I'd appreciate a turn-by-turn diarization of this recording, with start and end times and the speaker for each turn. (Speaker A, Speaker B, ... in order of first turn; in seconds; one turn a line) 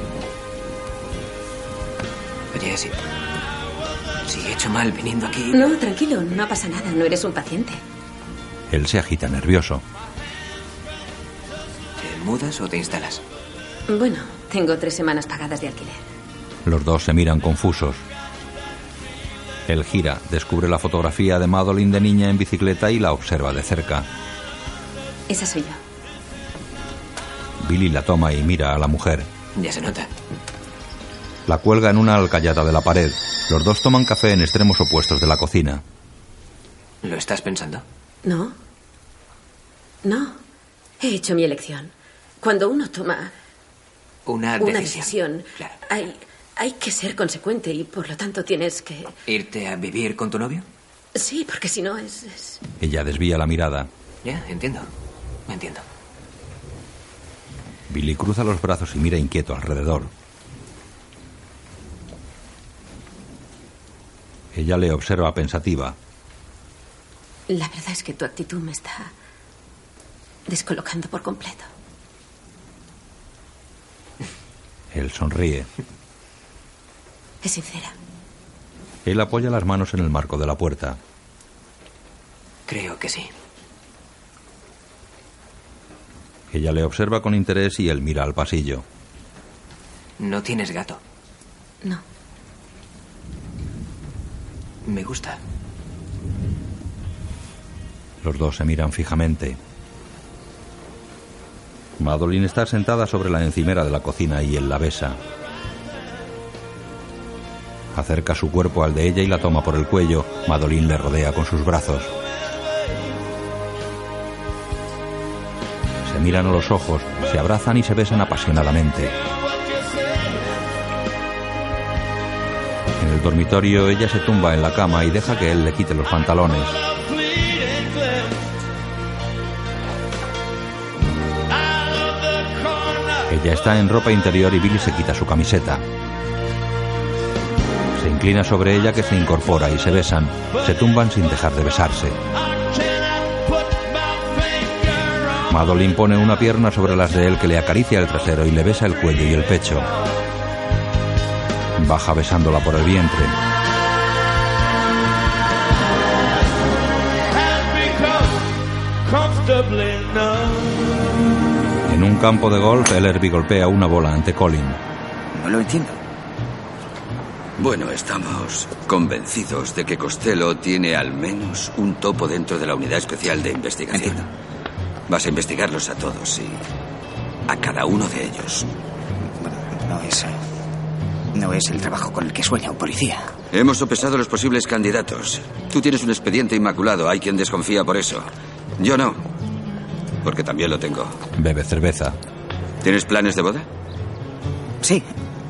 Speaker A: 2.5-3.0
Speaker A: 4.2-5.8
Speaker B: 5.5-7.8
Speaker C: 8.7-9.8
Speaker A: 12.0-13.2
Speaker B: 13.9-16.0
Speaker C: 16.6-18.0
Speaker C: 19.7-24.1
Speaker B: 25.3-25.8
Speaker C: 27.6-29.3
Speaker A: 29.5-30.1
Speaker C: 31.5-35.8
Speaker A: 37.0-37.8
Speaker B: 38.2-38.5
Speaker B: 40.0-40.4
Speaker B: 41.0-43.3
Speaker A: 44.2-45.8
Speaker B: 44.6-49.1
Speaker A: 49.3-50.6
Speaker B: 51.1-52.6
Speaker C: 52.8-53.9
Speaker A: 54.2-54.9
Speaker A: 55.5-55.8
Speaker C: 57.9-60.1
Speaker C: 64.5-66.0
Speaker B: 67.5-69.1
Speaker B: 70.5-71.7
Speaker C: 74.9-75.7
Speaker B: 77.4-77.9
Speaker C: 79.0-81.0
Speaker A: 82.7-83.3
Speaker C: 86.5-88.8
Speaker A: 90.2-91.0
Speaker A: 94.8-95.4
Speaker C: 98.2-99.6
Speaker C: 102.0-105.2
Speaker C: 107.9-112.1
Speaker C: 116.0-119.2
Speaker C: 123.0-126.8
Speaker C: 133.3-135.8
Speaker C: 138.0-142.2
Speaker C: 145.5-149.9
Speaker C: 151.8-153.3
Speaker C: 161.9-164.8
Speaker D: 165.3-166.0
Speaker E: 167.6-174.2
Speaker E: 175.1-176.6
Speaker E: 177.5-178.7
Speaker D: 179.4-180.3
Speaker D: 181.3-183.3
Speaker E: 183.5-189.2
Speaker E: 190.2-191.2
Speaker C: 191.4-192.2
Speaker E: 192.8-193.7